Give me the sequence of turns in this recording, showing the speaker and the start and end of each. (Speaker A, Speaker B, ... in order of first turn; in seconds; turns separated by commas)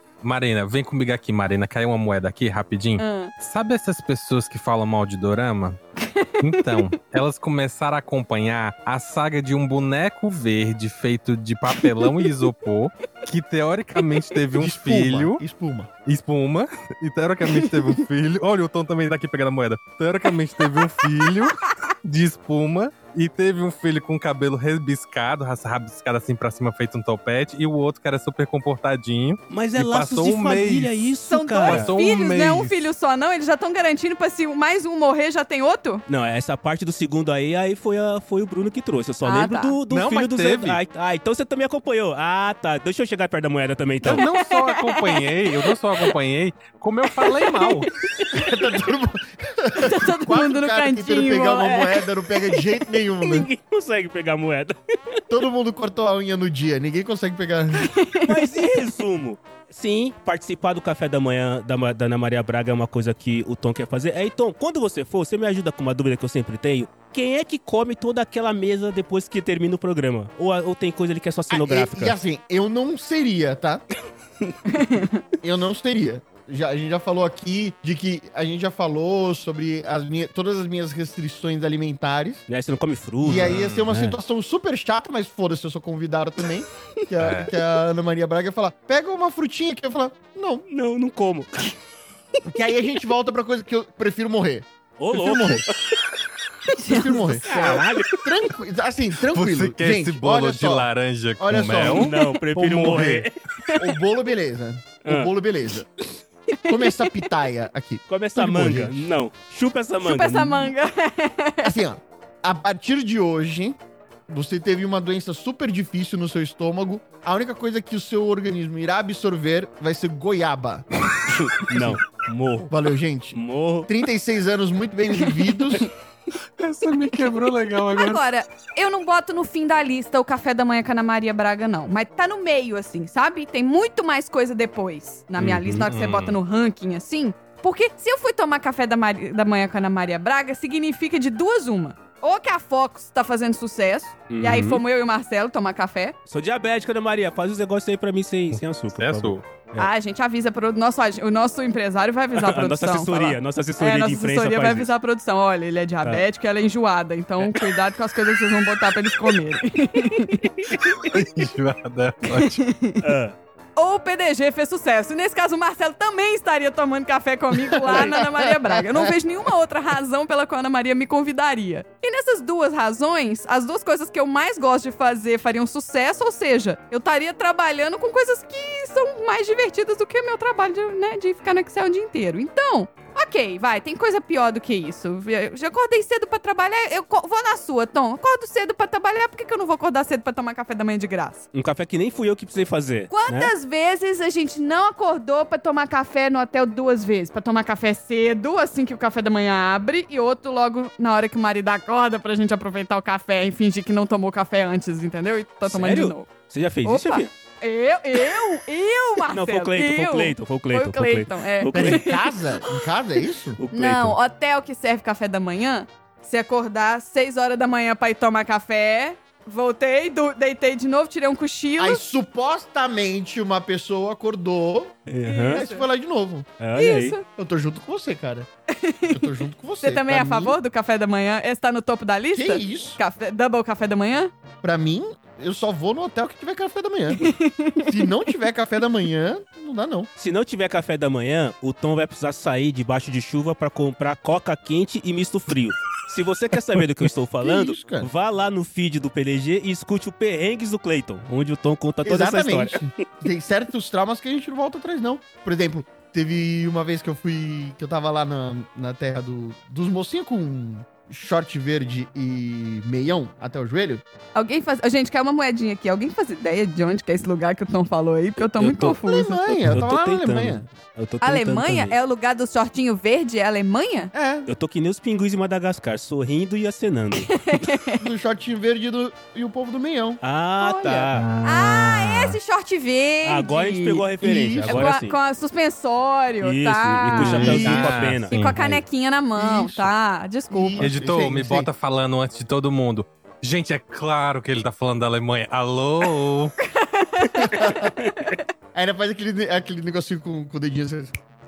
Speaker A: 0.2-5.8, Speaker B: 3.0-3.3, Speaker B: 6.0-6.9, Speaker A: 6.4-15.4, Speaker B: 11.8-12.2, Speaker C: 14.6-15.9, Speaker A: 16.1-31.1, Speaker B: 17.4-17.9, Speaker D: 29.5-31.9, Speaker B: 31.3-36.0, Speaker A: 31.6-32.8, Speaker D: 36.1-44.2, Speaker B: 39.2-39.8, Speaker A: 39.9-40.8, Speaker A: 44.0-47.9, Speaker B: 44.0-46.1, Speaker B: 47.2-48.3, Speaker C: 48.3-53.5, Speaker B: 49.8-52.1, Speaker D: 53.2-55.2, Speaker C: 55.3-57.9, Speaker B: 57.8-58.5, Speaker D: 58.2-72.2, Speaker C: 71.5-73.8, Speaker B: 74.7-75.2, Speaker C: 75.4-82.4, Speaker D: 82.5-84.2, Speaker C: 83.2-90.6, Speaker A: 83.3-83.9, Speaker A: 87.2-87.5, Speaker D: 90.7-91.7, Speaker C: 92.5-95.6, Speaker D: 95.0-95.8, Speaker B: 96.7-97.6, Speaker C: 96.8-102.1, Speaker D: 97.2-98.3, Speaker A: 99.3-103.3, Speaker D: 101.6-103.3, Speaker C: 103.8-105.9, Speaker D: 105.0-105.3, Speaker B: 106.6-107.1, Speaker C: 106.7-109.1, Speaker D: 108.1-110.7, Speaker B: 110.0-111.8, Speaker C: 111.6-120.8, Speaker D: 121.3-122.7, Speaker C: 122.7-125.9, Speaker D: 123.3-123.9, Speaker A: 126.6-128.2, Speaker B: 127.9-146.1, Speaker D: 135.4-135.9, Speaker A: 135.8-136.4, Speaker D: 144.3-144.8, Speaker D: 146.3-149.9, Speaker A: 148.5-149.4, Speaker B: 149.8-160.6, Speaker D: 152.3-154.9, Speaker A: 160.7-162.6, Speaker B: 162.3-163.0, Speaker D: 163.0-163.3, Speaker B: 163.8-191.5, Speaker D: 167.8-168.2, Speaker C: 168.2-169.0, Speaker D: 191.5-193.5, Speaker B: 193.1-206.3, Speaker D: 205.6-207.3, Speaker B: 206.8-212.3, Speaker D: 209.3-212.1, Speaker C: 211.7-213.6, Speaker D: 213.6-214.2, Speaker B: 213.7-222.0, Speaker C: 221.8-226.5, Speaker D: 225.1-225.6, Speaker B: 225.2-225.8, Speaker D: 226.6-227.2, Speaker B: 226.7-227.2, Speaker C: 227.3-228.5, Speaker B: 228.7-234.3, Speaker C: 229.1-230.6, Speaker C: 232.3-233.0, Speaker C: 234.6-240.1, Speaker B: 237.1-238.0, Speaker D: 240.2-252.9, Speaker C: 247.4-248.1, Speaker C: 252.0-264.0, Speaker B: 264.3-269.6, Speaker D: 268.5-269.0, Speaker C: 269.1-270.6, Speaker D: 269.6-272.0, Speaker B: 271.2-274.1, Speaker C: 274.1-274.5, Speaker D: 274.5-277.5, Speaker B: 277.3-278.0, Speaker C: 278.0-280.2, Speaker D: 280.2-281.3, Speaker B: 280.6-284.1, Speaker A: 281.1-282.4, Speaker D: 283.2-285.2, Speaker C: 284.2-284.9, Speaker B: 284.6-290.9, Speaker D: 286.4-288.8, Speaker A: 287.1-288.6, Speaker C: 287.2-287.9, Speaker C: 289.4-289.9, Speaker C: 290.5-291.7, Speaker A: 290.8-296.5, Speaker B: 296.6-298.4, Speaker C: 297.4-297.9, Speaker C: 298.7-301.1